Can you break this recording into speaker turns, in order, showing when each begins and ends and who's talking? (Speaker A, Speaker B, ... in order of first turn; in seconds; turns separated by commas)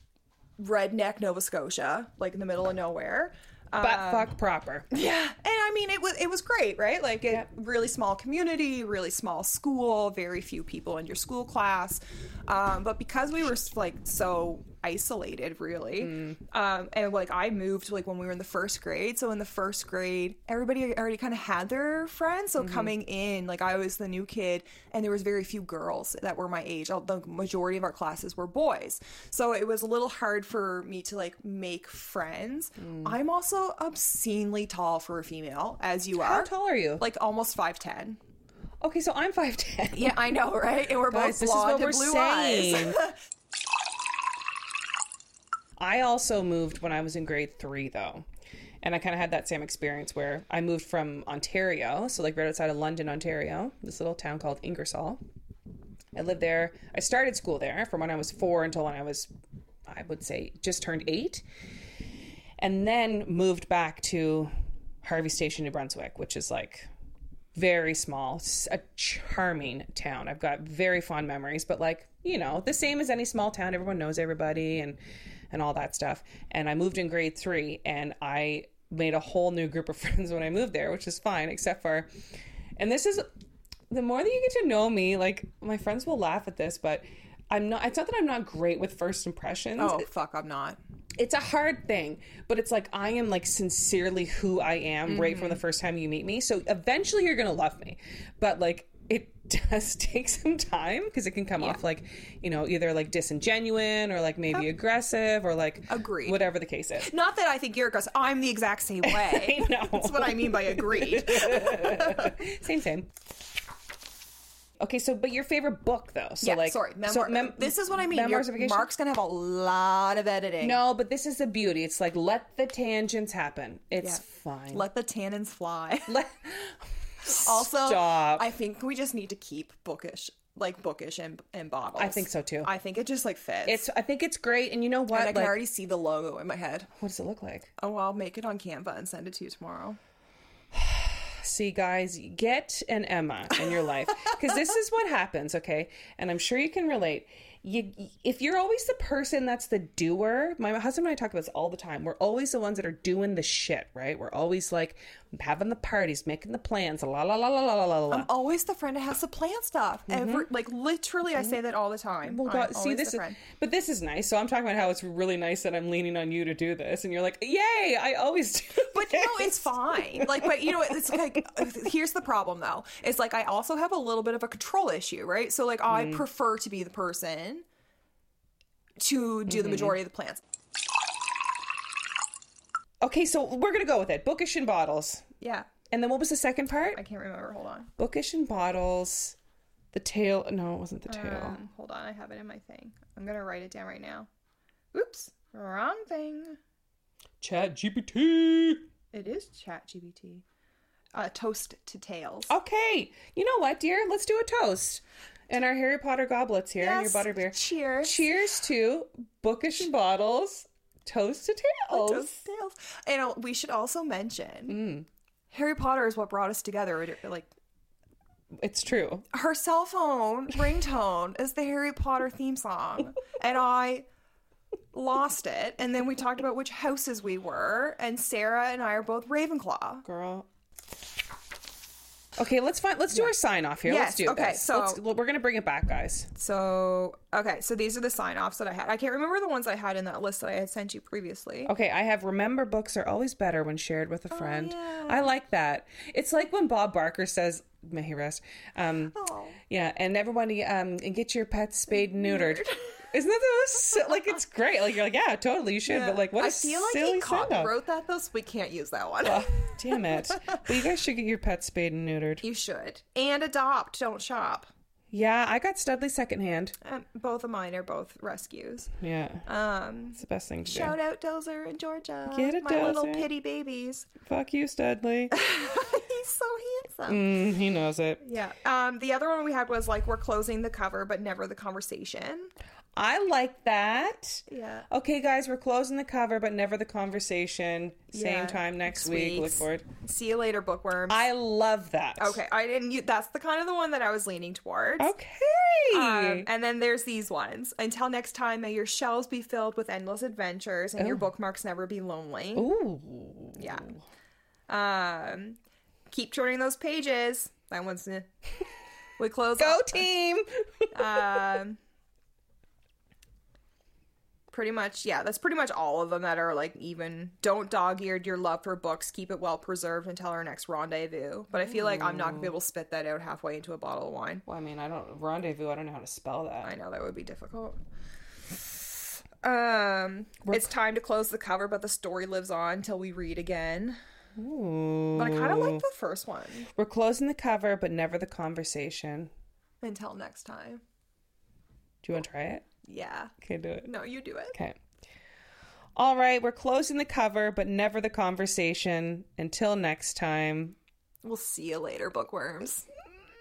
Speaker A: 0.6-4.3, Speaker B: 3.8-4.9, Speaker A: 4.9-38.2, Speaker B: 16.0-16.4, Speaker B: 22.6-22.9, Speaker B: 32.8-33.2, Speaker B: 36.1-37.0, Speaker B: 38.8-40.2, Speaker A: 39.9-43.1, Speaker B: 41.1-43.1, Speaker B: 45.8-48.2, Speaker B: 48.8-55.2, Speaker B: 56.1-59.3, Speaker B: 59.9-61.4, Speaker B: 62.6-64.5, Speaker B: 65.0-66.9, Speaker B: 67.5-75.0, Speaker B: 75.5-82.1, Speaker B: 82.8-83.3, Speaker B: 83.9-90.0, Speaker A: 89.8-90.8, Speaker B: 91.2-107.1, Speaker A: 95.1-95.6, Speaker A: 105.9-106.4, Speaker A: 107.0-112.4, Speaker B: 109.0-113.1, Speaker B: 114.8-118.9, Speaker A: 116.4-120.8, Speaker B: 120.6-124.9, Speaker A: 124.0-126.2, Speaker B: 126.1-128.5, Speaker A: 127.2-133.9, Speaker B: 132.0-132.7, Speaker B: 133.7-135.6, Speaker A: 135.1-136.9, Speaker B: 137.0-137.7, Speaker A: 137.8-140.0, Speaker B: 140.7-158.3, Speaker A: 158.1-163.4, Speaker B: 160.1-160.5, Speaker B: 162.2-171.2, Speaker A: 168.8-177.7, Speaker B: 175.9-176.2, Speaker A: 179.0-180.4, Speaker B: 179.5-180.0, Speaker B: 183.0-185.2, Speaker A: 185.4-185.7, Speaker B: 185.9-187.0, Speaker A: 186.9-187.9, Speaker B: 188.0-189.4, Speaker B: 189.9-191.6, Speaker A: 191.1-194.3, Speaker A: 194.9-196.6, Speaker B: 197.4-198.9, Speaker A: 199.1-200.4, Speaker A: 201.1-202.5, Speaker B: 202.5-212.4, Speaker A: 206.8-208.3, Speaker A: 211.9-214.8, Speaker B: 214.7-215.1, Speaker A: 215.5-217.5, Speaker B: 218.6-219.2, Speaker A: 219.3-224.1, Speaker A: 224.9-230.1, Speaker B: 230.1-230.5, Speaker B: 232.4-236.3, Speaker A: 233.8-235.0, Speaker A: 236.3-241.7, Speaker B: 241.7-249.2, Speaker A: 244.3-245.3, Speaker A: 249.2-249.6, Speaker B: 249.7-257.7, Speaker A: 251.9-253.0, Speaker A: 255.9-260.6, Speaker B: 259.2-262.4, Speaker A: 262.4-264.7, Speaker B: 265.1-266.8, Speaker A: 266.8-268.9, Speaker B: 269.0-269.5, Speaker A: 269.5-274.1, Speaker B: 270.2-271.0, Speaker B: 272.3-273.3, Speaker B: 274.3-275.4, Speaker A: 275.3-277.3, Speaker B: 277.1-278.2, Speaker A: 278.2-282.5, Speaker B: 283.0-289.9, Speaker A: 284.5-284.9, Speaker A: 288.1-291.2, Speaker B: 291.1-292.4, Speaker A: 292.2-295.1, Speaker B: 295.0-296.5, Speaker A: 295.9-302.7, Speaker B: 301.0-301.3, Speaker B: 302.6-304.0, Speaker A: 303.6-303.9, Speaker A: 304.7-305.6, Speaker A: 306.1-308.3, Speaker A: 309.2-310.1, Speaker B: 309.6-311.6, Speaker A: 310.9-311.8, Speaker A: 314.5-324.4, Speaker B: 321.5-322.6, Speaker B: 324.5-326.8, Speaker A: 326.6-327.8, Speaker A: 328.5-334.0, Speaker B: 334.4-335.8, Speaker A: 335.1-336.7, Speaker B: 336.8-339.3, Speaker A: 339.8-340.8, Speaker B: 342.0-342.6, Speaker A: 342.9-343.3, Speaker B: 343.4-343.9, Speaker A: 343.9-344.6, Speaker B: 346.0-350.8, Speaker A: 351.2-352.9